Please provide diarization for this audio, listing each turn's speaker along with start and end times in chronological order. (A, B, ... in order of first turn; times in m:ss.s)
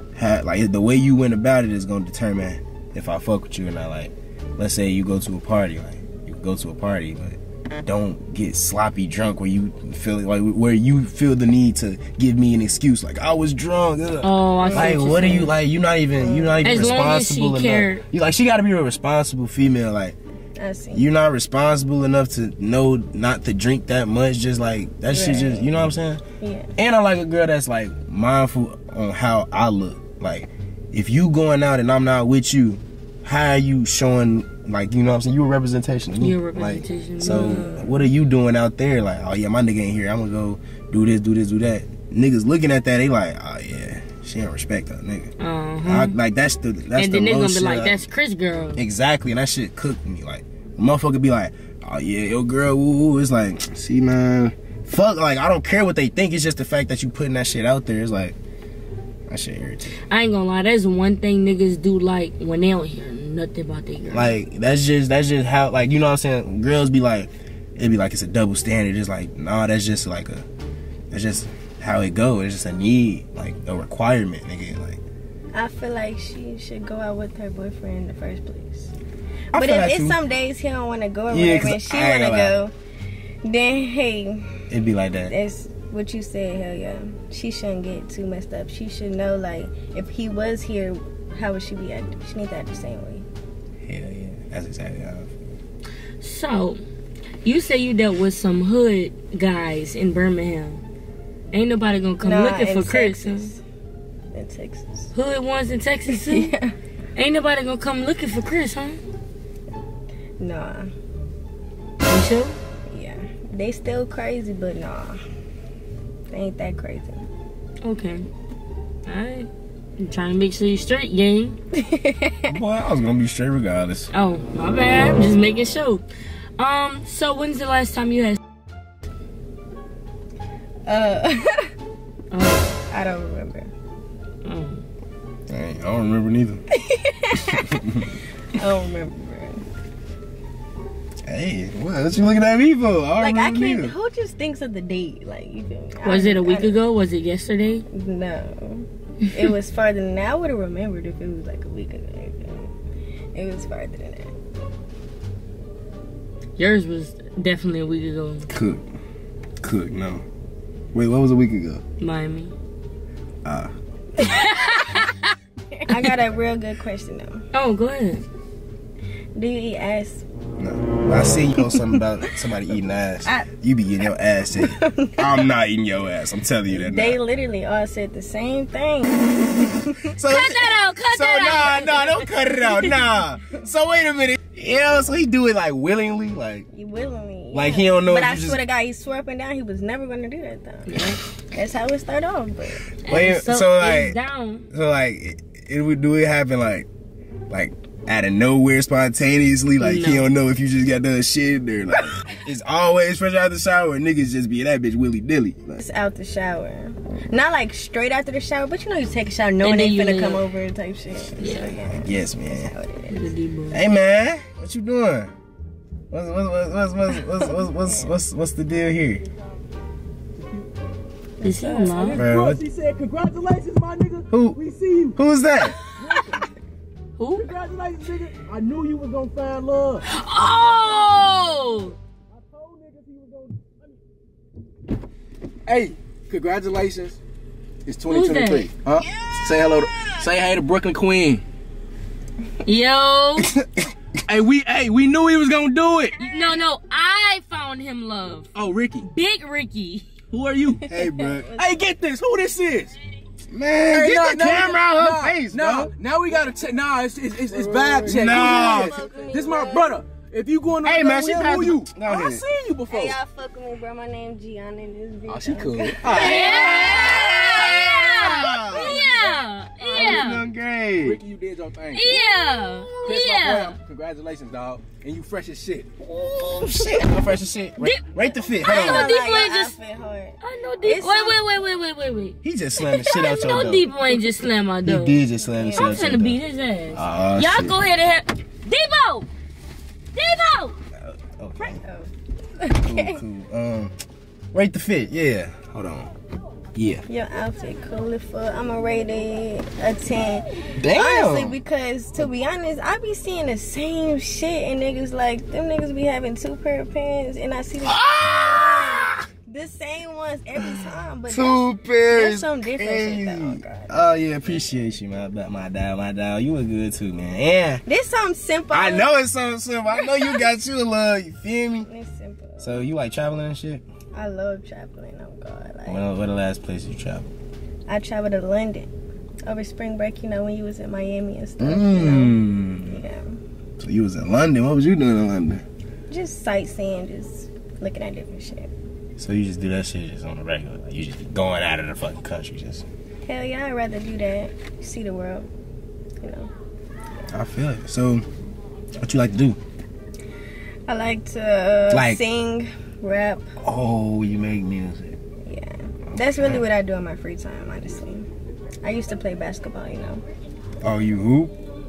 0:00.1-0:20.2 A
0:14.2-0:15.5 B
0:14.6-0:15.4 C
0:16.2-0:17.1 C
0:16.6-0:18.0 B
0:20.6-0:21.0 C
0:20.9-0:26.2 A
0:25.1-0:25.7 C
0:26.4-0:26.7 C
0:26.8-0:45.3 A
0:36.2-0:37.9 B
0:45.4-0:46.1 B
0:45.8-0:48.0 A
0:47.0-0:48.8 B
0:48.8-0:58.4 A
0:59.3-1:00.0 A
1:00.1-1:04.4 B
1:04.1-1:10.4 A
1:11.1-1:15.0 A
1:15.5-1:18.9 C
1:19.5-1:22.7 C
1:19.5-1:20.2 A
1:21.3-1:22.6 A
1:23.4-1:24.6 C
1:24.7-1:25.3 A
1:25.3-1:33.2 C
1:33.8-1:35.3 A
1:36.2-1:36.8 B
1:37.4-1:40.8 B
1:41.5-1:43.5 B
1:42.2-1:43.6 C
1:44.3-1:45.1 C
1:45.1-1:46.5 B
1:46.1-1:46.7 C
1:47.2-1:49.0 B
1:50.4-1:50.9 C
1:52.0-1:52.6 B
1:52.9-1:55.2 C
1:56.3-1:57.2 C
1:57.8-1:58.2 B
1:59.1-2:01.6 B
2:01.7-2:02.5 C
2:02.5-2:04.1 A
2:04.1-2:06.0 B
2:06.6-2:08.4 B
2:10.9-2:11.7 C
2:12.3-2:12.7 B
2:12.9-2:13.7 C
2:14.4-2:14.8 B
2:15.5-2:16.6 A
2:16.7-2:17.9 C
2:17.6-2:18.1 A
2:18.5-2:19.6 C
2:21.2-2:23.9 A
2:23.2-2:26.8 C
2:26.0-2:27.8 B
2:27.9-2:32.7 C
2:33.3-2:34.4 C
2:36.6-2:38.5 B
2:38.5-2:38.9 A
2:39.6-2:40.2 A
2:40.9-2:41.8 A
2:42.0-2:42.5 B
2:43.4-2:43.7 A
2:44.2-2:45.3 B
2:44.2-2:44.8 C
2:45.7-2:47.5 C
2:45.9-2:46.1 B
2:47.5-2:48.2 B
2:49.3-2:50.2 C
2:50.6-2:57.2 A
2:51.6-2:52.0 C
2:54.6-2:55.4 C
2:56.7-3:00.0 C
3:00.0-3:06.7 A
3:00.3-3:02.3 B
3:06.7-3:12.9 C
3:07.5-3:08.6 A
3:10.9-3:11.2 B
3:13.0-3:14.2 A
3:13.0-3:14.6 B
3:14.7-3:16.9 A
3:17.5-3:25.8 A
3:19.8-3:20.3 B
3:25.8-3:33.3 C
3:29.6-3:30.4 B
3:31.4-3:31.8 B
3:31.9-3:32.7 A
3:33.1-3:33.8 B
3:33.7-3:35.3 A
3:36.1-3:39.2 A
3:37.4-3:38.1 C
3:40.4-3:40.7 D
3:41.4-3:42.1 C
3:41.4-3:42.2 B
3:41.9-3:45.2 D
3:42.1-3:42.6 A
3:44.3-3:44.6 A
3:45.1-3:45.8 A
3:45.8-3:46.5 D
3:47.2-3:47.5 B
3:47.4-3:50.0 D
3:50.0-3:52.0 B
3:50.8-3:53.9 D
3:55.7-3:57.2 D
3:57.8-4:01.4 D
3:58.1-3:58.7 B
4:02.6-4:03.5 B
4:03.4-4:03.9 A
4:04.2-4:06.2 D
4:06.2-4:08.5 B
4:08.5-4:09.1 D
4:09.0-4:10.1 B
4:10.3-4:10.9 D
4:10.9-4:11.5 A
4:10.9-4:11.7 C
4:11.6-4:13.0 D
4:13.5-4:15.9 A
4:13.9-4:23.2 D
4:17.8-4:20.0 C
4:18.0-4:19.0 A
4:20.8-4:22.4 A
4:22.9-4:27.9 C
4:25.3-4:27.3 D
4:26.0-4:29.0 A
4:26.0-4:30.4 B
4:28.6-4:29.4 C
4:29.8-4:30.4 D
4:29.9-4:31.2 A
4:31.0-4:32.3 D
4:31.9-4:33.8 B
4:33.0-4:35.9 D
4:36.0-4:39.2 A
4:37.8-4:39.7 B
4:38.6-4:41.4 C
4:40.4-4:42.4 B
4:42.4-4:43.9 A
4:43.0-4:45.2 B
4:44.8-4:46.4 A
4:45.4-4:46.2 C
4:45.8-4:49.3 B
4:46.9-4:47.8 A
4:50.1-4:50.8 B
4:51.0-4:51.8 A
4:51.6-4:53.2 C
4:52.8-4:53.9 A
4:54.5-4:56.1 A
4:56.8-4:57.0 A
4:57.1-5:14.6 C
5:00.8-5:01.6 A
5:07.8-5:09.2 A
5:10.6-5:17.8 A
5:17.8-5:19.1 C
5:18.7-5:21.9 A
5:19.9-5:20.4 C
5:21.8-5:22.8 C
5:22.6-5:23.8 A
5:24.1-5:26.0 C
5:25.9-5:27.3 A
5:27.9-5:28.9 C
5:29.4-5:33.4 C
5:31.6-5:33.0 A
5:33.8-5:35.6 A
5:36.1-5:38.7 C
5:39.2-5:42.8 A
5:43.2-5:45.5 C
5:46.2-5:46.5 C
5:47.3-5:48.2 A
5:49.0-5:49.6 A
5:50.9-5:53.5 C
5:51.9-5:52.2 A
5:53.6-5:55.2 A
5:55.4-5:58.3 C
5:56.1-5:56.6 A
5:58.8-6:00.2 C
6:00.8-6:01.5 A